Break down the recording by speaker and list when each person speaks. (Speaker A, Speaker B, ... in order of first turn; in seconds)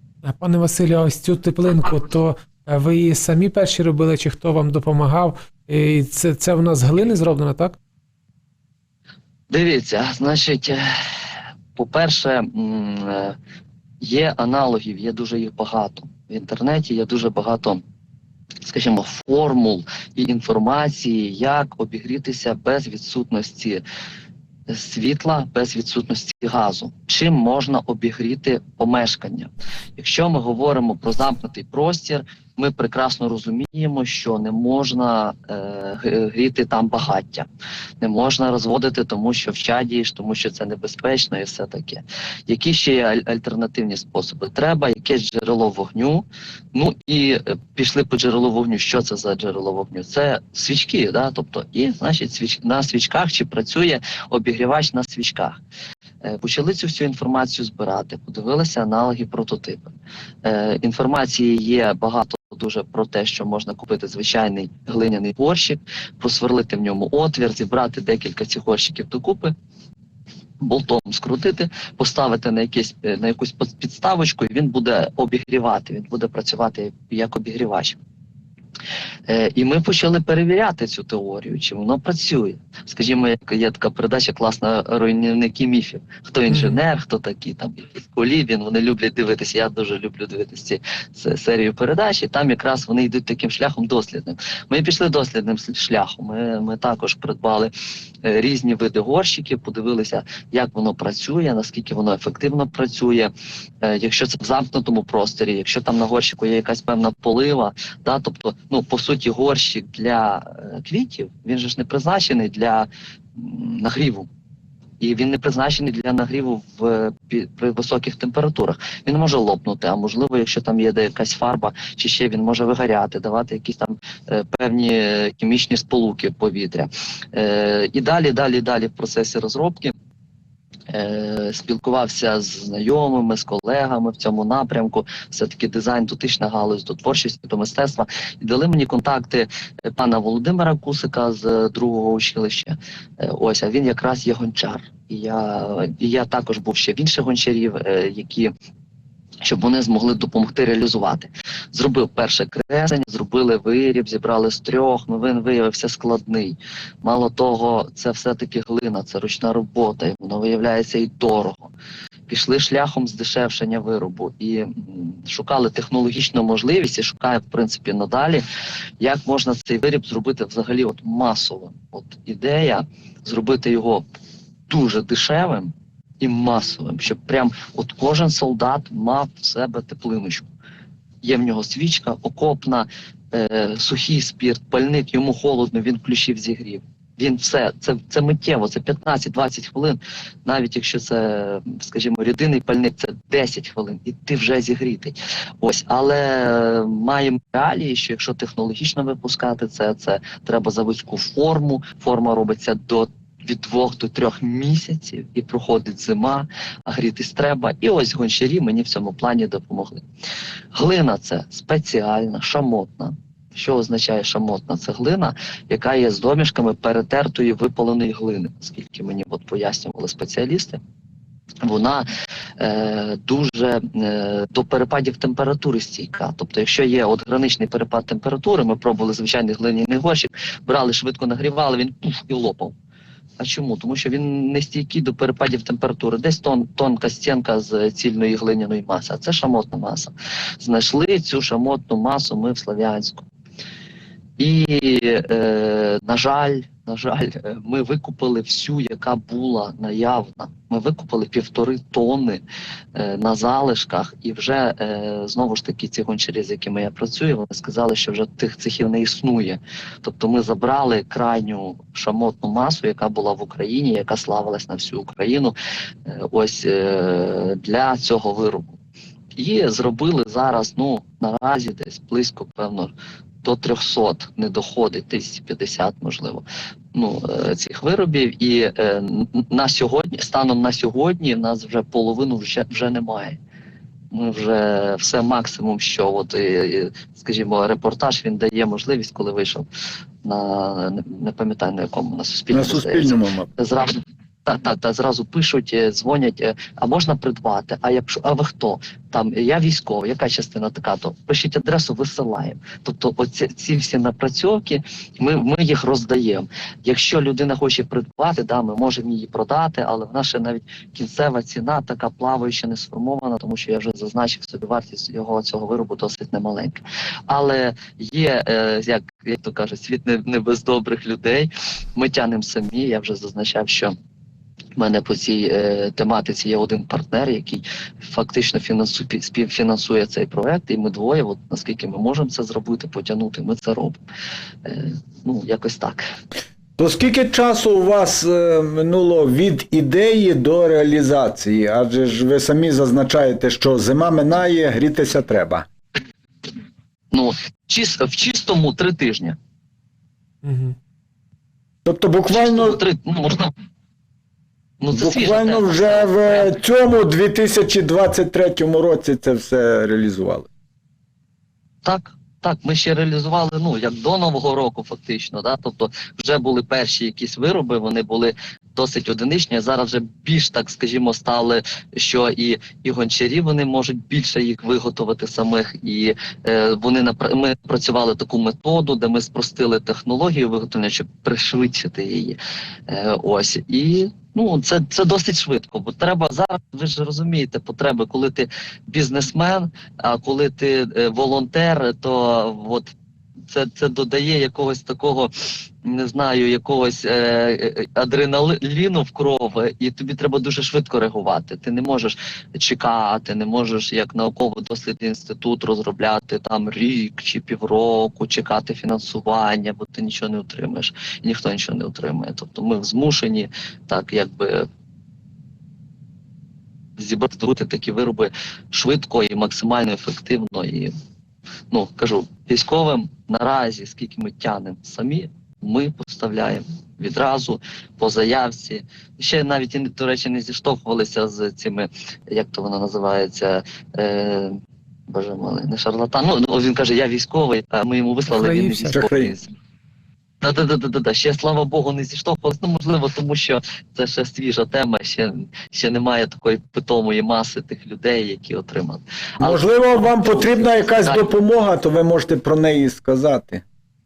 Speaker A: 0.2-7.8, 86.5-86.8, 350.4-350.8, 438.3-439.0
Speaker B: 9.5-10.8, 11.8-13.4, 14.0-17.8, 18.6-23.8, 24.7-37.5, 38.0-55.6, 56.2-59.9, 60.4-69.5, 70.6-78.0, 79.3-97.7, 98.2-103.3, 103.8-114.3, 115.0-130.0, 130.9-148.5, 149.4-161.7, 162.3-168.4, 169.0-174.1, 174.7-180.5, 181.2-210.0, 210.7-220.8, 221.6-222.1, 222.6-232.8, 233.4-243.3, 244.4-252.4, 252.9-265.6, 266.1-268.7, 269.4-283.4, 284.1-289.7, 290.2-323.9, 324.8-334.0, 334.6-336.0, 347.1-349.4, 352.3-353.5, 354.8-356.5, 361.8-392.9, 393.5-395.3, 395.8-414.7, 417.0-420.9, 421.7-439.5, 440.4-451.3
Speaker C: 292.5-293.5, 336.8-345.7, 351.9-352.8, 354.9-360.5, 438.9-439.3, 449.4-453.6